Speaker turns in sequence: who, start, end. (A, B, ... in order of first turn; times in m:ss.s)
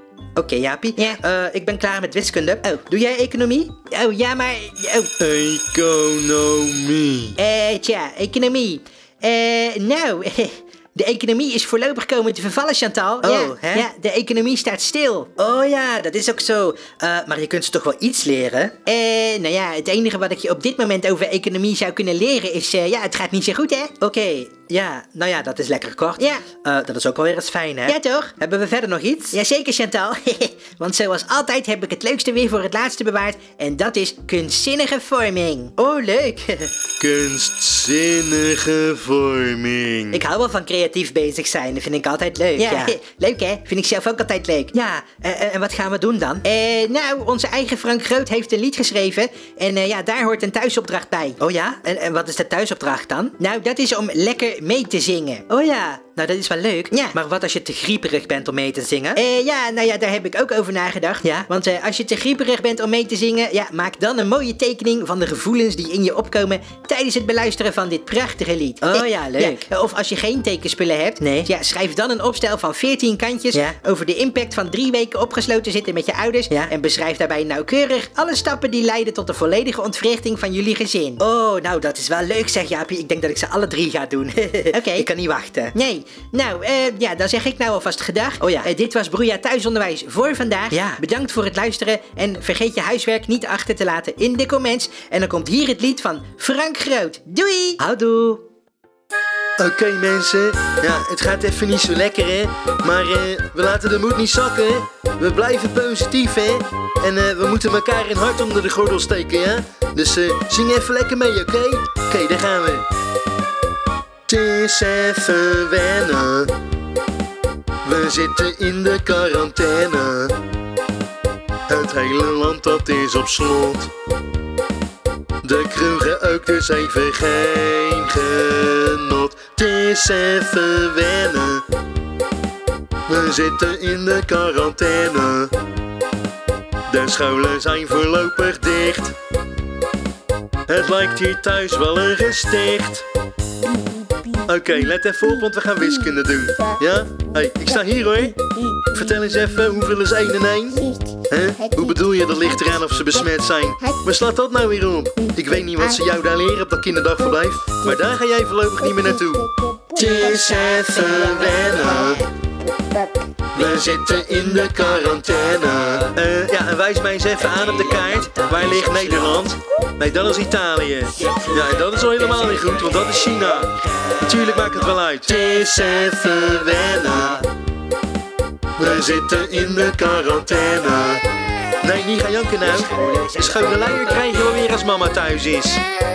0:00.4-0:03.9 A
0:02.8-0:05.1 B
0:05.2-0:07.4 C
0:07.4-0:15.5 B
0:13.2-0:13.9 A
0:15.4-0:18.9 A
0:18.9-0:24.0 B
0:24.0-0:28.0 A
0:27.9-0:36.5 B
0:28.7-0:29.4 A
0:36.2-0:36.7 A
0:37.0-0:40.2 C
0:40.2-0:43.0 A
0:42.6-0:44.7 B
0:44.7-0:46.6 A
0:46.5-0:51.4 B
0:51.4-0:53.6 A
0:53.6-0:55.5 B
0:55.4-0:59.3 A
0:59.2-1:21.2 B
1:01.2-1:01.6 A
1:08.8-1:09.7 A
1:11.2-1:11.5 A
1:13.5-1:13.8 A
1:16.5-1:16.8 A
1:21.2-1:25.8 A
1:24.7-1:25.1 B
1:25.8-1:37.8 B
1:28.4-1:28.7 A
1:30.7-1:31.1 A
1:31.8-1:32.2 A
1:34.8-1:35.3 A
1:37.8-1:38.4 A
1:39.6-1:52.9 C
1:54.3-1:56.5 C
1:57.8-2:00.4 C
2:01.7-2:03.9 C
2:05.4-2:11.6 C
2:13.1-2:15.5 C
2:16.9-2:19.2 C
2:20.7-2:23.1 C
2:24.4-2:42.3 C
2:40.4-2:42.1 B
2:43.5-2:53.8 C
2:47.6-2:49.5 B
2:51.2-2:54.7 B
2:54.3-2:57.5 C
2:58.8-3:01.3 C
3:01.8-3:05.8 C
3:03.0-3:04.3 B
3:03.0-3:03.8 A